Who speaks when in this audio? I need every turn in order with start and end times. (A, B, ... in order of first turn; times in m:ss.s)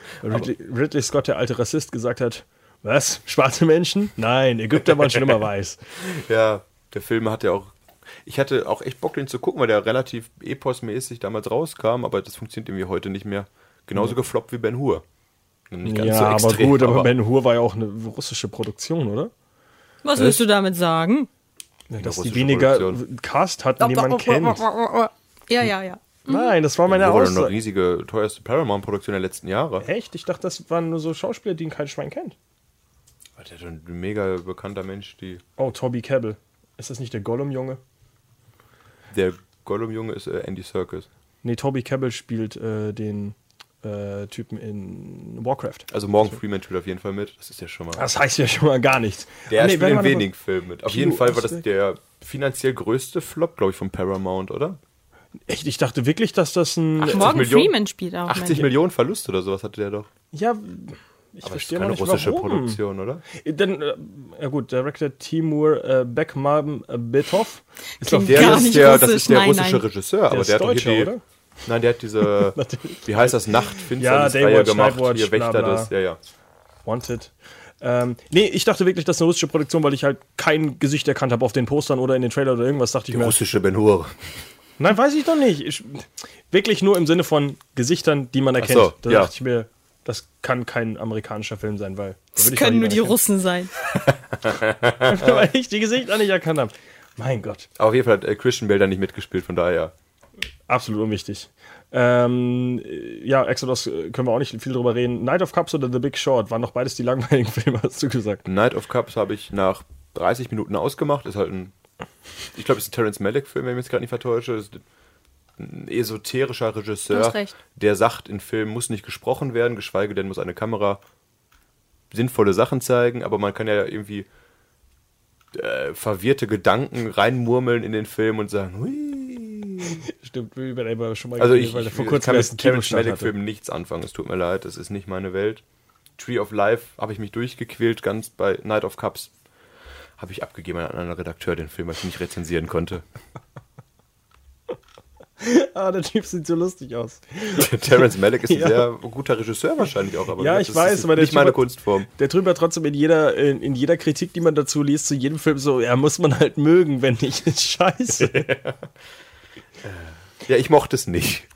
0:00.2-0:05.8 A
0:06.0-0:15.0 B
0:15.7-0:17.1 B
0:15.8-0:19.3 A
0:20.0-0:21.3 C
0:20.1-0:20.4 B
0:21.9-0:24.6 A
0:22.0-0:23.0 B
0:23.8-0:26.5 C
0:26.2-0:27.5 A
0:26.8-0:29.8 B
0:29.8-0:32.4 A
0:33.4-0:35.4 B
0:35.6-0:37.8 A
0:39.1-0:41.1 B
0:41.4-0:45.9 A
0:45.9-0:48.0 B
0:48.0-0:50.3 A
0:49.5-0:54.8 B
0:50.8-0:51.6 A
0:55.5-0:57.4 A
0:57.0-0:57.7 B
0:57.0-0:58.7 C
0:58.3-1:00.1 B
1:00.3-1:09.0 A
1:01.4-1:03.2 B
1:08.0-1:09.8 C
1:08.2-1:11.1 B
1:10.3-1:11.2 A
1:11.6-1:16.2 B
1:12.2-1:15.9 A
1:16.8-1:23.4 A
1:23.1-1:24.2 B
1:24.8-1:33.1 A
1:28.6-1:29.3 B
1:32.4-1:33.7 C
1:33.9-1:35.4 B
1:35.0-1:37.7 A
1:37.8-1:39.9 B
1:40.7-1:48.4 A
1:48.4-1:51.7 B
1:52.5-1:54.8 B
1:55.6-2:01.0 B
1:57.1-1:57.5 C
2:02.1-2:04.3 B
2:05.5-2:10.0 B
2:10.0-2:13.3 A
2:11.4-2:15.6 B
2:16.2-2:19.3 B
2:20.2-2:23.0 B
2:25.4-2:28.9 A
2:27.5-2:32.1 B
2:30.4-2:38.5 A
2:38.2-2:38.9 B
2:39.8-2:41.5 B